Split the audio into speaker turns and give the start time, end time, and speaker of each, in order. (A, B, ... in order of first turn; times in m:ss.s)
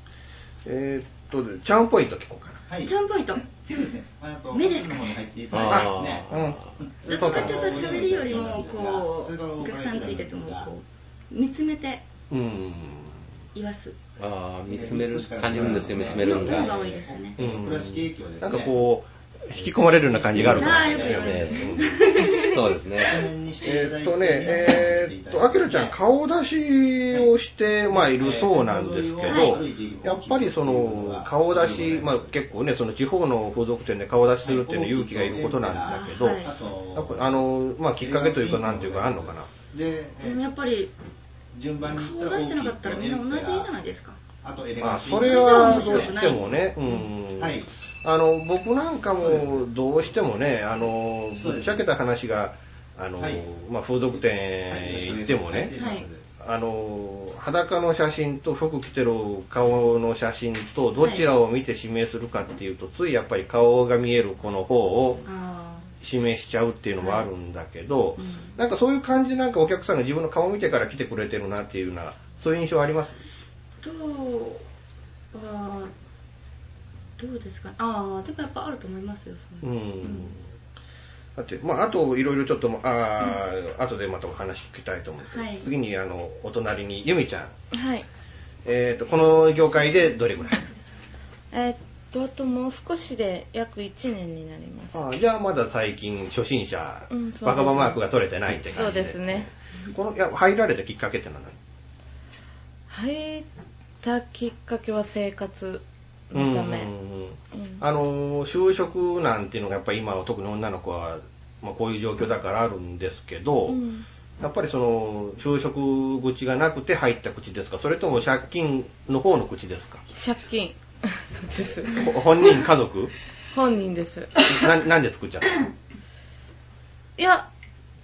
0:00.6-0:02.6 A
0:02.7-0:06.3 B
0:02.9-0:03.5 C
0:04.5-0:05.2 C
0:05.5-0:07.2 D
0:05.7-0:07.8 A
0:06.8-0:10.7 B
0:07.1-0:12.0 C
0:12.3-0:13.2 A
0:13.6-0:14.0 C
0:14.2-0:16.8 D
0:14.7-0:18.8 B
0:16.0-0:17.5 C
0:17.4-0:22.0 A
0:19.6-0:21.6 B
0:20.4-0:21.7 D
0:20.4-0:22.7 C
0:22.2-0:23.2 D
0:23.0-0:26.0 B
0:23.6-0:39.5 A
0:27.9-0:32.3 B
0:29.3-0:29.6 C
0:34.4-0:37.4 B
0:35.9-0:36.5 C
0:38.0-0:40.5 B
0:40.2-0:40.9 C
0:41.5-0:43.7 B
0:41.8-0:44.2 C
0:44.4-0:46.3 B
0:44.8-0:55.7 A
0:45.1-0:47.1 C
0:47.4-0:47.7 B
0:49.2-0:49.6 B
0:51.3-0:51.8 B
0:53.2-0:53.4 B
0:54.7-0:56.2 B
0:55.7-0:56.1 C
0:56.4-1:05.2 A
1:01.0-1:01.3 C
1:05.2-1:05.9 C
1:06.0-1:13.2 A
1:07.0-1:07.3 C
1:08.2-1:08.6 C
1:13.8-1:14.6 C
1:15.3-1:15.9 C
1:17.2-1:20.4 C
1:19.6-1:20.4 A
1:21.4-1:27.5 A
1:25.3-1:25.7 C
1:27.7-1:28.1 E
1:28.6-1:30.6 A
1:30.5-1:30.7 C
1:31.5-1:35.0 E
1:34.9-1:41.6 A
1:37.1-1:38.0 E
1:38.6-1:39.5 E
1:42.9-1:43.5 E
1:44.0-1:46.9 E
1:46.3-1:53.8 A
1:47.5-1:47.8 E
1:53.7-1:54.1 E
1:54.4-2:00.0 A
2:00.1-2:02.1 E
2:01.9-2:03.1 A
2:03.5-2:04.4 E
2:04.4-2:05.6 A
2:07.2-2:07.5 E